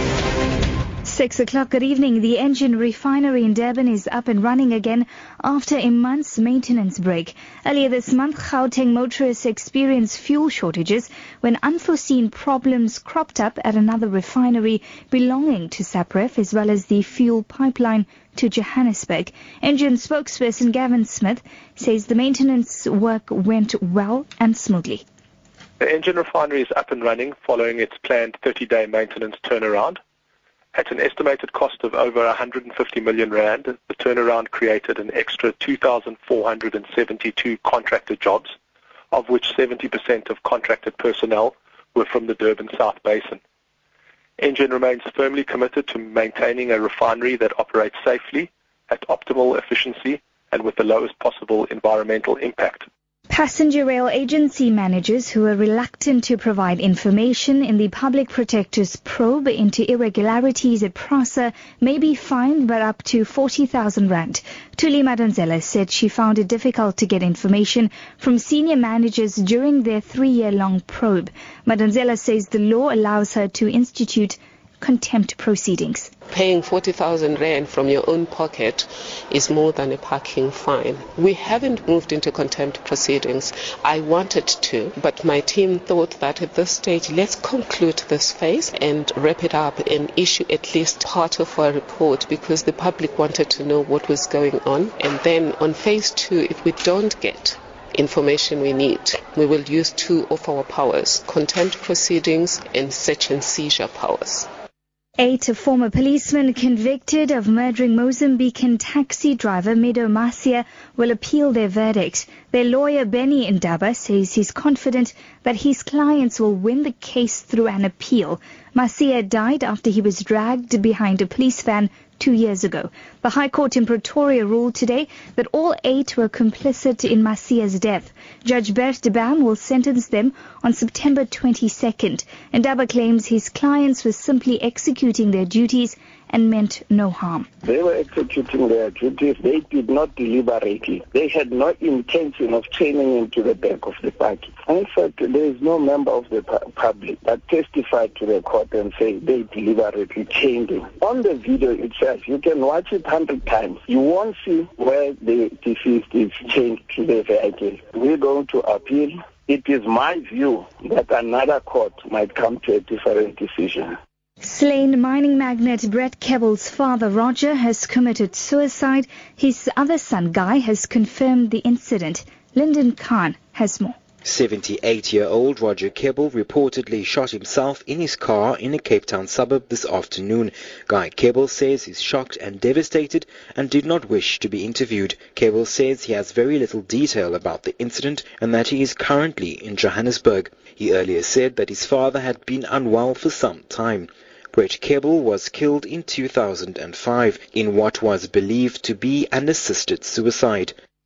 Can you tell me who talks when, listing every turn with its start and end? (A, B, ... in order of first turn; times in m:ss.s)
0:01.0-0:25.0 A
0:25.8-0:30.0 B
0:30.7-0:38.5 B
0:39.1-0:43.4 B
0:44.4-0:52.9 B
0:53.3-1:16.1 A
1:16.3-1:44.5 C
1:45.2-2:17.5 A
2:17.6-2:44.0 D
2:44.4-2:54.0 A
2:54.2-3:20.7 E